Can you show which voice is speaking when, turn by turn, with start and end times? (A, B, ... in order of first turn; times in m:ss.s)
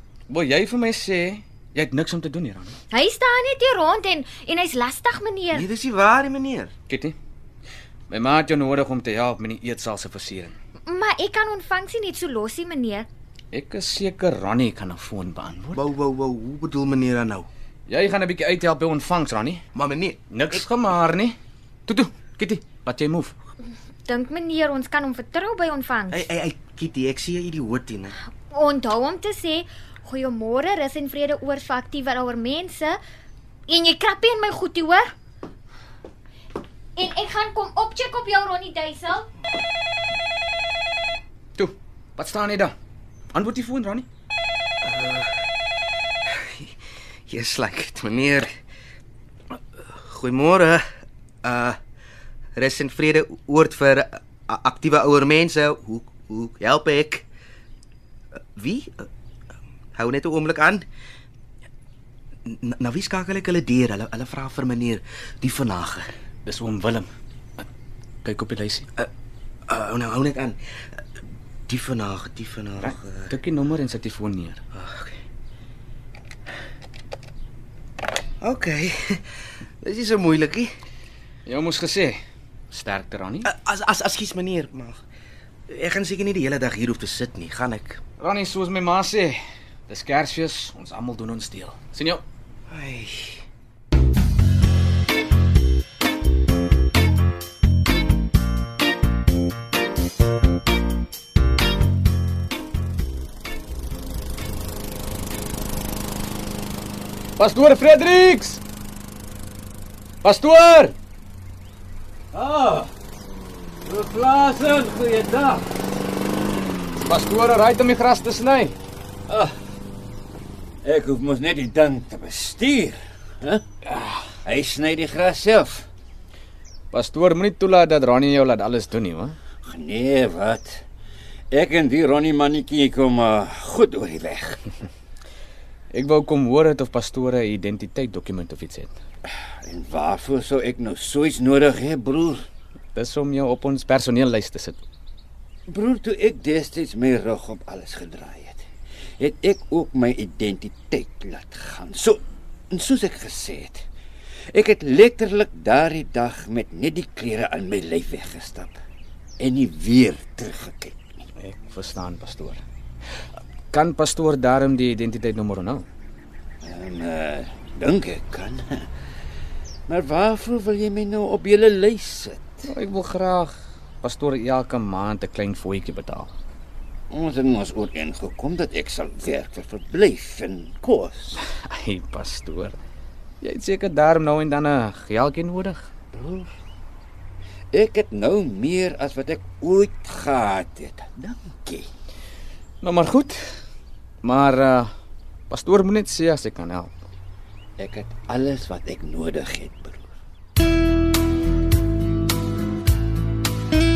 0:00.3-0:02.8 A
0:02.9-0:05.6 B
0:05.5-0:06.7 C
0:06.9-0:07.2 A
0:08.1-0:10.5 A
0:10.8-0:13.1 B
0:13.5-0:15.8 A
0:15.7-0:17.5 C
0:17.9-0:19.6 A
0:19.8-0:20.2 C
0:20.3-0:21.4 A
0:21.9-0:23.3 A
0:24.1-0:26.2 B
0:26.1-0:28.1 C
0:28.5-0:33.0 B
0:33.7-0:35.1 B
0:37.0-0:39.2 B
0:41.6-0:42.7 A
0:43.3-0:44.0 A
0:44.8-0:45.3 C
0:47.3-0:48.5 C
0:50.1-0:50.8 C
0:51.4-0:51.8 C
0:52.6-0:57.2 C
0:58.6-0:58.9 C
1:00.0-1:00.8 C
1:02.5-1:06.0 C
1:06.4-1:07.6 A
1:08.2-1:08.9 A
1:09.7-1:10.6 C
1:11.7-1:13.3 C
1:12.8-1:14.6 A
1:14.7-1:15.1 C
1:18.4-1:18.9 C
1:19.8-1:20.6 C
1:21.4-1:22.2 A
1:22.7-1:23.5 A
1:23.4-1:25.0 C
1:25.8-1:28.0 C
1:28.2-1:32.2 A
1:32.7-1:33.3 C
1:47.4-1:48.6 A
1:50.2-1:51.0 A
1:52.3-1:52.9 D
1:53.8-1:55.6 D
1:56.9-1:58.7 A
1:59.3-1:59.6 D
2:00.8-2:03.6 D
2:04.4-2:05.8 D
2:06.9-2:09.4 A
2:09.6-2:10.8 D
2:11.5-2:14.6 D
2:15.9-2:18.9 A
2:19.6-2:22.4 D
2:22.9-2:24.8 A
2:25.7-2:28.7 D
2:29.2-2:33.8 D
2:34.5-2:38.8 D
2:39.4-2:41.2 D
2:41.4-2:42.6 A
2:43.7-2:45.8 A
2:46.6-2:48.9 D
2:49.9-2:52.6 D
2:52.6-2:56.3 A
2:57.1-3:01.4 D
3:01.6-3:02.8 A
3:03.4-3:05.8 A
3:06.1-3:06.5 D
3:07.7-3:11.9 D
3:12.8-3:13.4 A
3:14.2-3:14.9 A
3:15.5-3:16.9 A
3:17.8-3:20.1 D